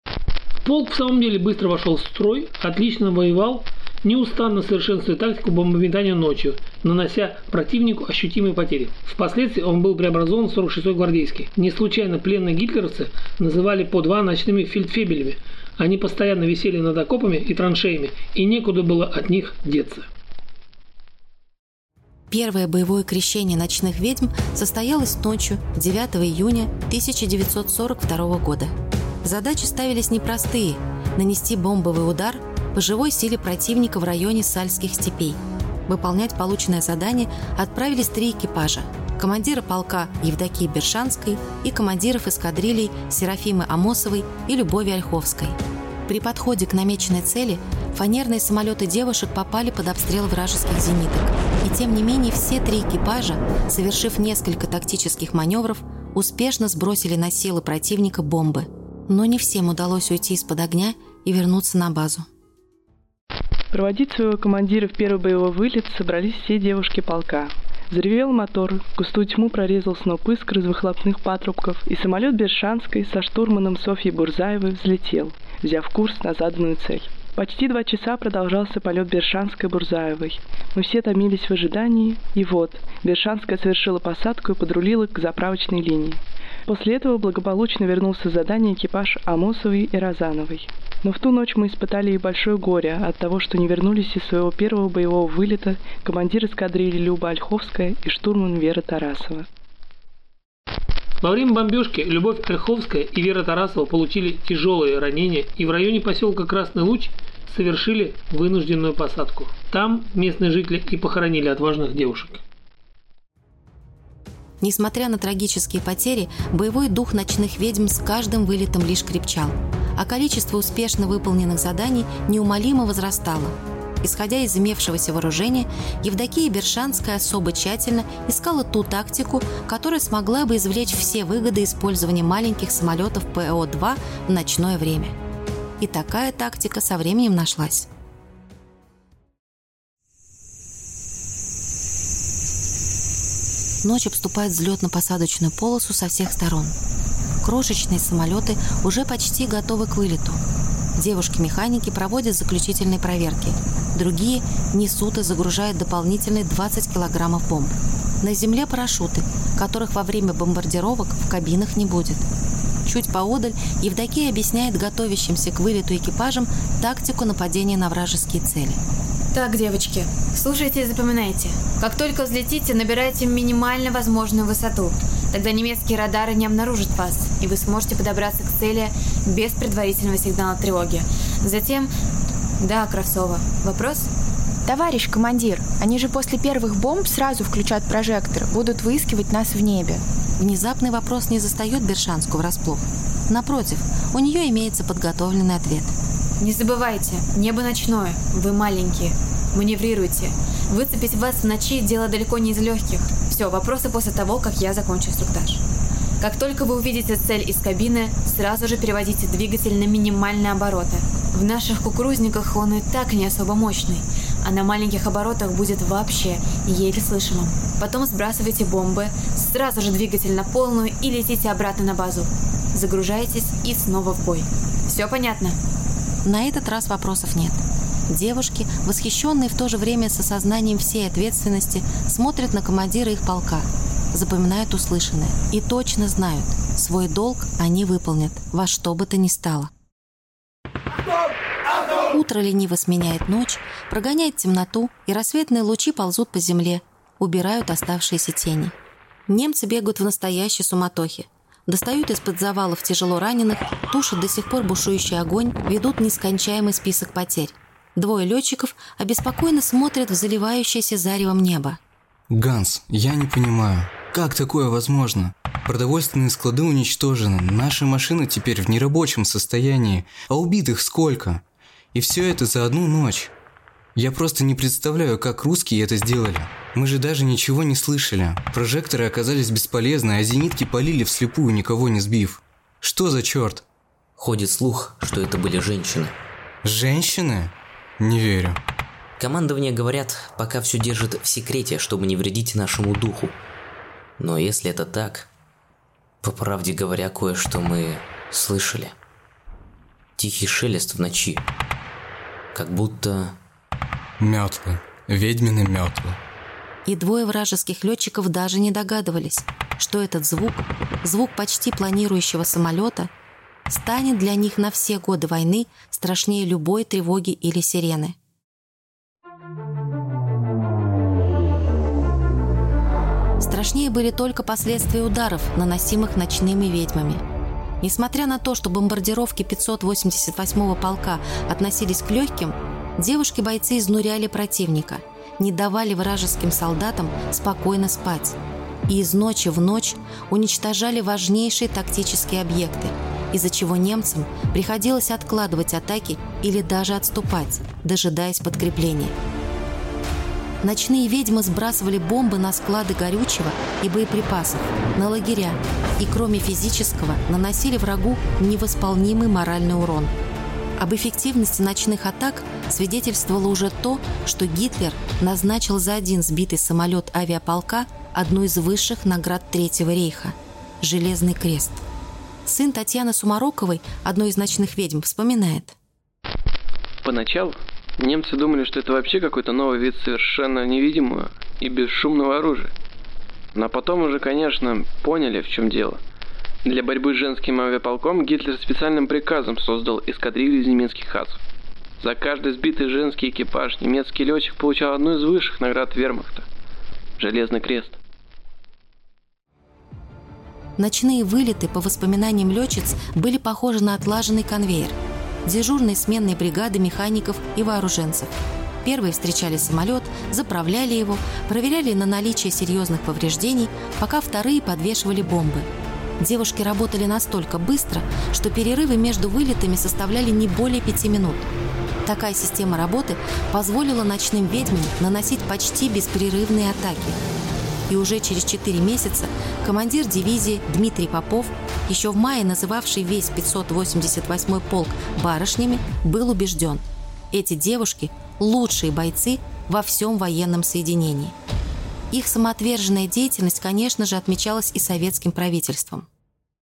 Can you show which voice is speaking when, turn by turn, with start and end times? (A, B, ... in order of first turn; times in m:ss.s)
0:00.6-0:20.1 A
0:22.3-1:02.3 B
1:03.7-1:39.5 C
1:41.2-1:52.4 A
1:54.6-2:15.2 B
2:15.8-2:17.9 B
2:23.8-2:26.8 B
2:27.4-2:30.4 B
2:31.0-2:42.2 B
2:42.8-2:48.8 B
2:49.3-3:01.9 D
3:02.6-3:04.1 D
3:04.6-3:10.0 E
3:10.4-3:16.0 B
3:16.4-3:25.6 D
3:26.2-3:45.6 D
3:46.2-3:59.7 B
4:02.1-4:08.8 B
4:09.3-4:21.8 B
4:22.3-4:31.4 F
4:31.9-4:33.3 F
4:33.9-4:43.6 F
4:44.2-4:46.2 G
4:46.6-4:48.6 F
4:49.2-4:53.4 G
4:54.2-4:55.3 G
4:56.2-4:58.9 G
5:00.2-5:01.4 G
5:02.5-5:03.4 G
5:04.2-5:06.2 F
5:06.8-5:13.1 B
5:13.7-5:18.2 B
5:23.4-5:27.2 B
5:27.8-5:49.1 B
5:50.6-6:00.1 B
6:00.8-6:11.8 B
6:12.4-6:15.8 B
6:17.0-6:22.7 H
6:23.5-6:26.0 H
6:26.6-6:31.4 H
6:32.0-6:36.5 H
6:37.2-6:38.0 H
6:40.8-7:01.5 B
7:02.0-7:07.2 B
7:07.9-7:21.4 B
7:22.1-7:26.1 B